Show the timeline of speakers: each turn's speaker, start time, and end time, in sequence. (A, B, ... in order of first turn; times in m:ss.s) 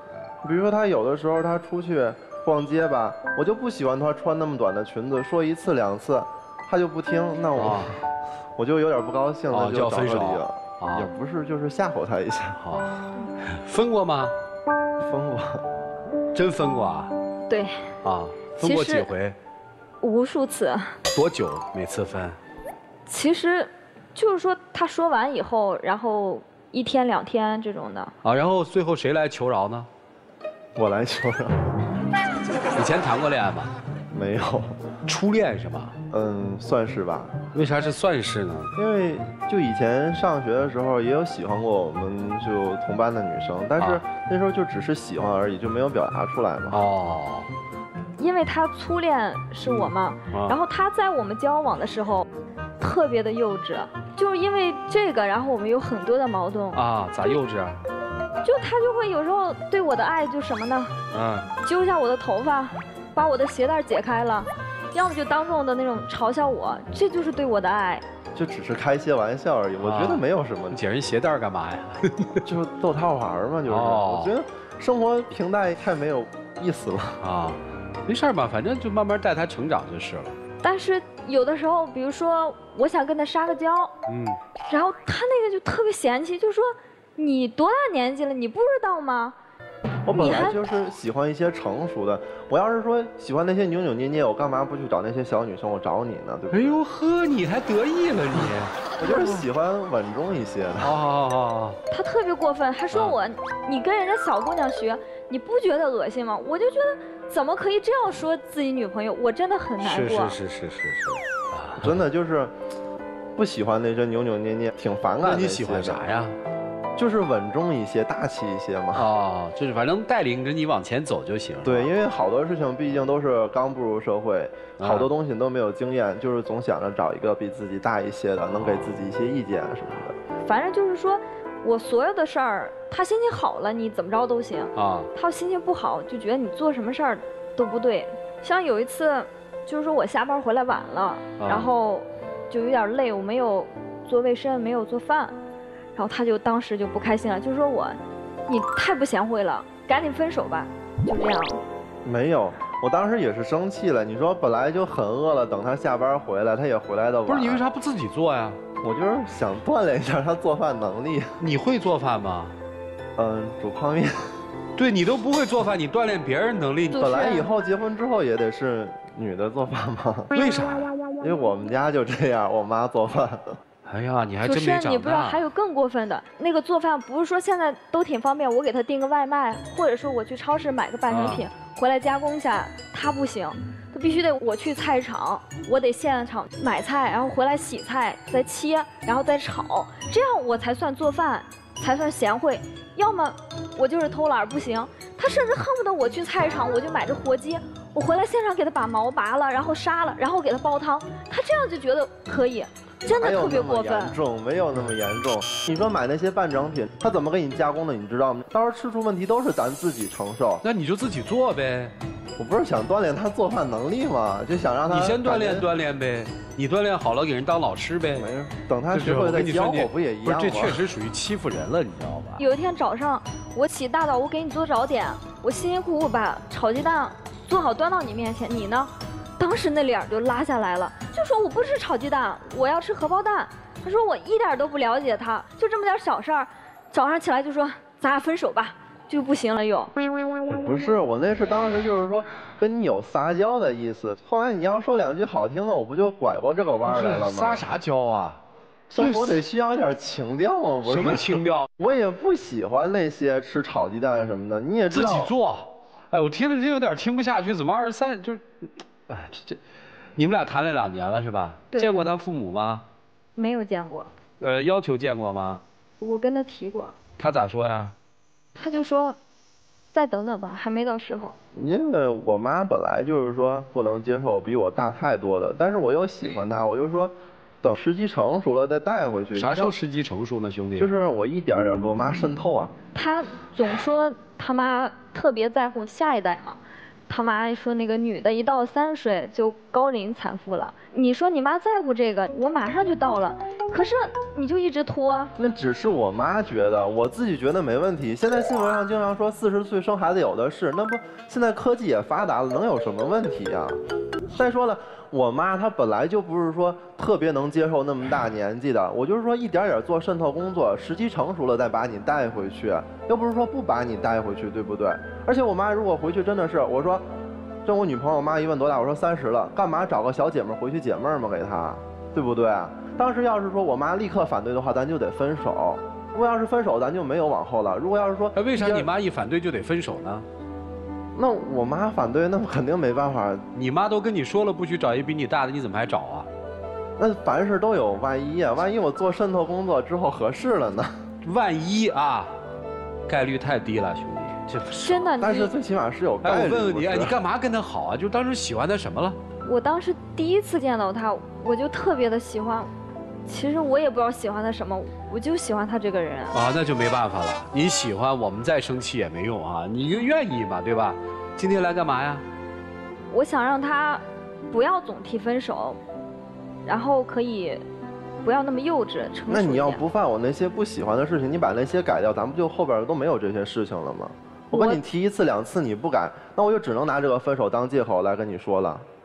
0:00.4-0:07.9 A
0:07.6-0:07.9 B
0:08.6-0:12.6 A
0:09.5-0:11.1 B
0:12.6-0:12.9 B
0:13.5-0:14.3 B
0:15.0-0:15.6 A
0:16.3-0:17.1 B
0:17.5-0:17.8 C
0:18.0-0:19.4 B
0:18.6-0:19.1 C
0:20.0-0:20.9 C
0:21.1-0:22.4 B
0:23.1-0:28.1 C
0:28.2-0:29.9 B
0:30.8-0:31.6 A
0:32.7-0:33.7 B
0:34.1-0:34.7 A
0:35.0-0:35.9 B
0:36.1-0:37.4 A
0:37.5-0:38.7 B
0:38.8-0:46.8 A
0:46.7-0:47.5 B
0:48.2-0:52.2 C
0:50.3-0:50.6 B
0:52.8-0:57.3 C
0:56.7-0:57.8 B
0:58.4-1:00.9 C
1:01.1-1:01.5 B
1:01.6-1:08.0 C
1:08.3-1:10.8 A
1:09.8-1:12.3 B
1:12.4-1:17.2 A
1:13.7-1:14.3 B
1:17.2-1:20.4 B
1:20.6-1:23.9 C
1:24.1-1:24.4 B
1:24.7-1:29.4 C
1:30.0-1:36.7 A
1:30.1-1:30.6 C
1:36.5-1:39.4 B
1:39.0-1:40.9 A
1:40.8-1:41.8 B
1:41.9-1:50.4 C
1:42.9-1:43.2 B
1:49.8-1:52.0 B
1:51.8-1:52.5 A
1:53.4-1:56.0 A
1:55.2-1:56.4 B
1:57.0-1:59.0 A
1:58.9-2:01.9 B
2:01.6-2:10.2 A
2:04.8-2:05.1 B
2:08.5-2:09.0 B
2:10.4-2:25.4 C
2:14.8-2:15.1 B
2:21.4-2:21.7 B
2:25.9-2:31.6 C
2:32.0-2:37.6 A
2:37.3-2:38.6 B
2:38.8-2:41.3 A
2:41.4-2:42.5 B
2:43.2-2:44.3 A
2:44.8-2:47.2 B
2:46.9-2:47.5 C
2:47.0-2:50.3 A
2:50.3-2:50.9 B
2:51.2-2:53.6 A
2:53.8-2:55.4 B
2:54.4-3:24.2 C
3:01.1-3:01.4 B
3:23.1-3:30.6 A
3:30.6-3:31.9 B
3:32.4-3:35.7 A
3:34.9-3:38.3 B
3:38.1-3:40.8 A
3:38.9-3:42.4 B
3:42.4-3:59.9 C
4:00.5-4:07.6 A
4:06.8-4:08.4 B
4:08.9-4:15.3 A
4:09.0-4:09.4 B
4:10.8-4:11.7 B
4:14.9-4:19.6 B
4:20.2-4:22.8 B
4:21.7-4:22.0 C
4:23.4-4:24.1 C
4:24.4-4:25.6 B
4:26.0-4:26.9 C
4:27.2-4:27.9 B
4:28.6-4:29.2 C
4:29.9-4:31.3 C
4:31.5-4:39.7 A
4:39.3-4:40.9 B
4:40.8-4:42.7 A
4:42.9-4:55.3 C
4:55.4-5:03.8 A
5:04.3-5:17.0 A
5:17.6-5:28.9 A
5:28.3-5:30.2 B
5:31.1-5:33.4 A
5:33.5-5:36.3 B
5:37.0-5:41.0 A
5:41.2-5:42.4 B
5:43.1-5:45.1 B
5:44.8-5:45.5 C
5:45.2-5:47.1 A
5:46.2-5:49.2 B
5:49.4-5:52.7 C
5:53.2-5:56.3 C
5:56.3-6:02.2 B
6:03.1-6:05.8 C
6:06.6-6:07.6 C
6:08.2-6:09.8 C
6:09.3-6:18.8 A
6:14.5-6:14.8 C